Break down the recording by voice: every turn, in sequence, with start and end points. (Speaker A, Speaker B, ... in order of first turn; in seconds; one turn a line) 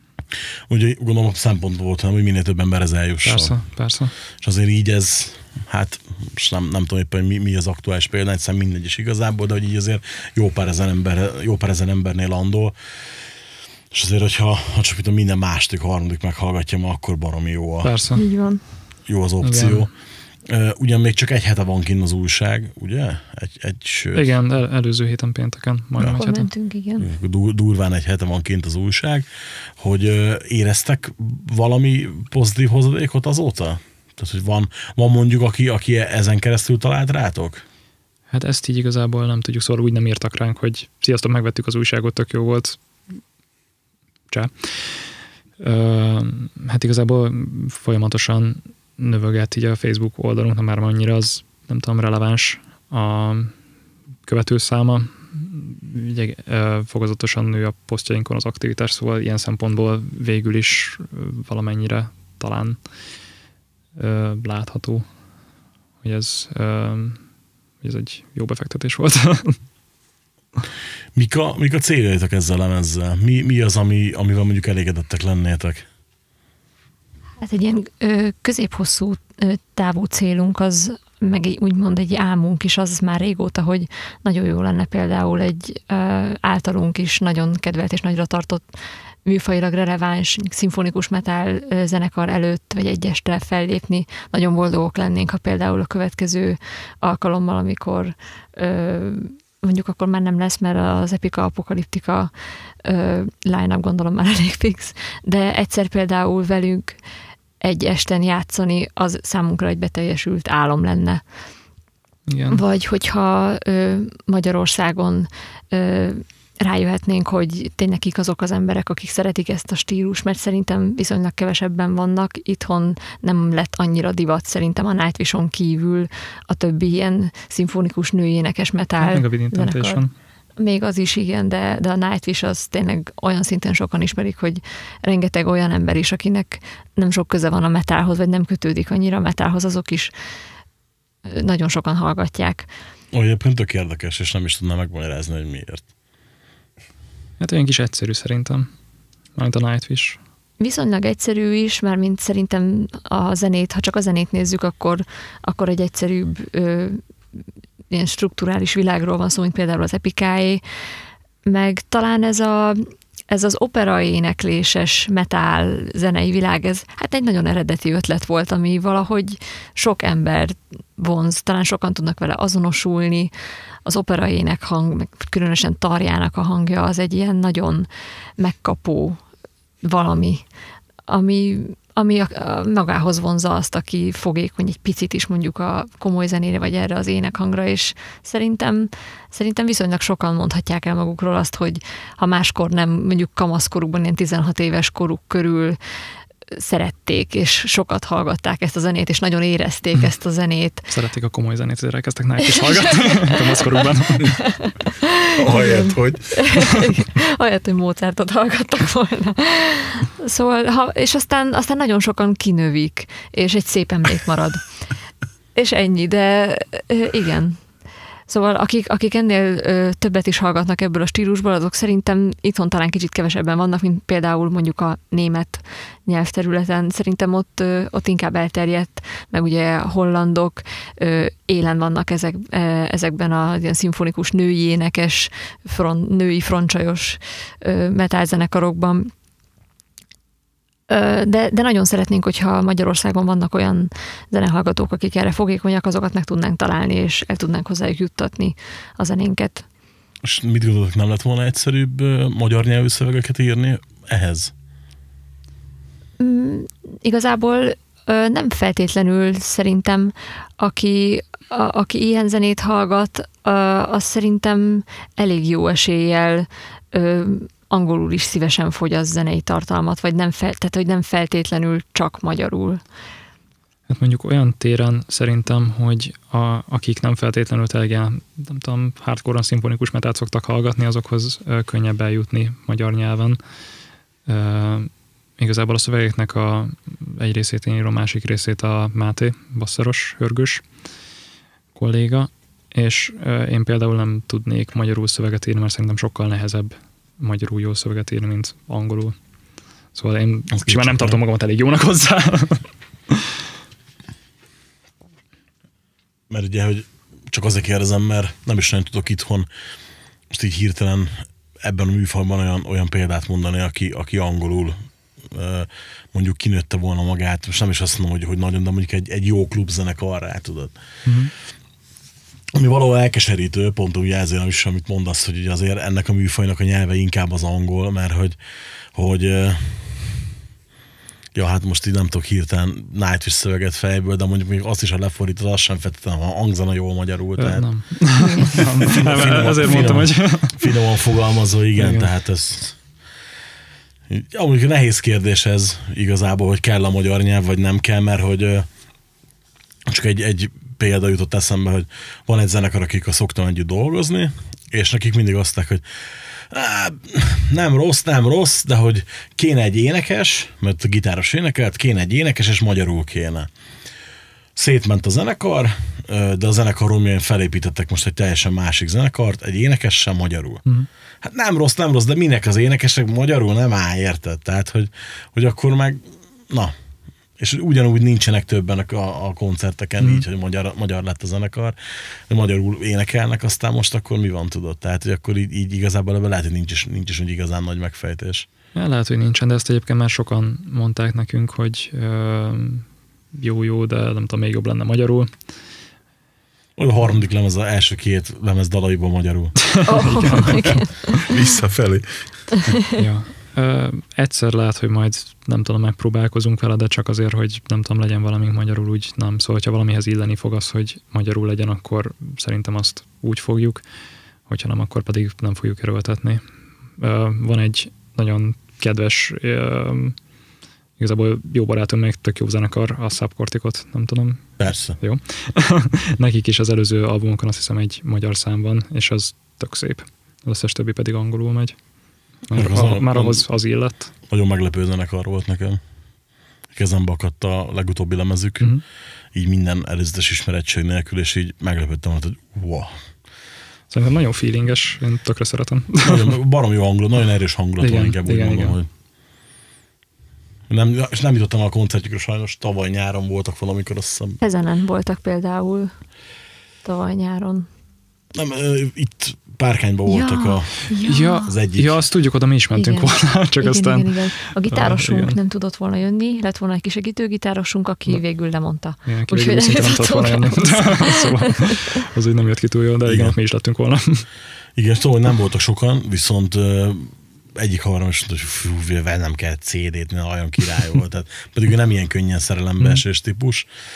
Speaker A: 0.7-3.6
Speaker B: 3.2-4.1
Speaker A: 4.4-12.7
Speaker A: 13.9-17.9
Speaker B: 17.8-18.2
Speaker C: 18.1-18.6
Speaker A: 19.1-19.9
Speaker B: 19.4-19.9
Speaker A: 20.5-24.3
Speaker B: 24.1-26.5
Speaker C: 26.0-27.1
Speaker A: 27.0-29.3
Speaker A: 29.8-37.6
Speaker B: 38.3-42.8
Speaker B: 44.3-53.5
Speaker B: 54.3-62.8
Speaker B: 64.0-65.1
Speaker B: 66.0-67.2
Speaker B: 67.8-69.6
Speaker A: 71.2-75.9
Speaker C: 77.4-88.6
Speaker C: 89.2-102.3
Speaker C: 102.8-107.0
Speaker C: 107.6-111.2
Speaker B: 112.3-112.6
Speaker C: 112.5-130.0
Speaker B: 129.0-130.1
Speaker C: 130.6-140.1
Speaker C: 141.3-142.7
Speaker A: 143.1-145.8
Speaker B: 147.4-148.7
Speaker B: 149.4-150.2
Speaker C: 150.6-157.0
Speaker C: 157.9-160.6
Speaker C: 161.5-173.3
Speaker C: 173.9-179.2
Speaker C: 179.8-180.4
Speaker C: 181.1-195.8
Speaker C: 196.5-200.9
Speaker B: 200.9-204.3
Speaker C: 202.4-203.4
Speaker C: 204.2-214.7
Speaker D: 205.4-206.5
Speaker C: 215.5-217.6
Speaker C: 218.3-239.1
Speaker C: 240.9-249.7
Speaker A: 250.2-254.5
Speaker C: 256.2-272.8
Speaker B: 273.9-283.4
Speaker B: 284.3-290.6
Speaker B: 291.8-299.2
Speaker B: 299.9-303.1
Speaker A: 300.5-301.2
Speaker A: 306.3-309.5
Speaker A: 310.3-320.8
Speaker B: 321.1-321.3
Speaker A: 322.5-328.4
Speaker A: 328.9-330.2
Speaker A: 331.3-338.1
Speaker B: 337.4-340.7
Speaker C: 338.2-338.5
Speaker A: 338.6-342.8
Speaker B: 341.8-342.1
Speaker A: 344.1-348.7
Speaker A: 349.9-355.8
Speaker A: 356.5-363.5
Speaker A: 364.6-370.6
Speaker A: 371.2-376.7
Speaker A: 377.4-381.8
Speaker B: 380.0-380.2
Speaker A: 382.3-388.5
Speaker B: 388.8-395.3
Speaker A: 396.8-400.3
Speaker B: 399.7-400.8
Speaker C: 399.9-401.2
Speaker D: 400.4-402.7
Speaker B: 403.0-413.8
Speaker B: 414.5-420.2
Speaker B: 421.0-431.8
Speaker A: 424.6-425.0
Speaker B: 432.5-434.1
Speaker A: 432.5-433.4
Speaker A: 434.3-435.8
Speaker A: 436.7-438.7
Speaker A: 439.3-442.9
Speaker B: 443.9-446.3
Speaker A: 446.0-448.9
Speaker B: 447.8-448.8
Speaker A: 450.7-454.4
Speaker C: 454.4-455.9
Speaker C: 456.9-457.7
Speaker A: 458.3-462.0
Speaker C: 460.1-461.5
Speaker B: 461.1-465.4
Speaker C: 462.7-471.8
Speaker B: 469.1-474.2
Speaker A: 473.1-473.4
Speaker A: 474.8-483.7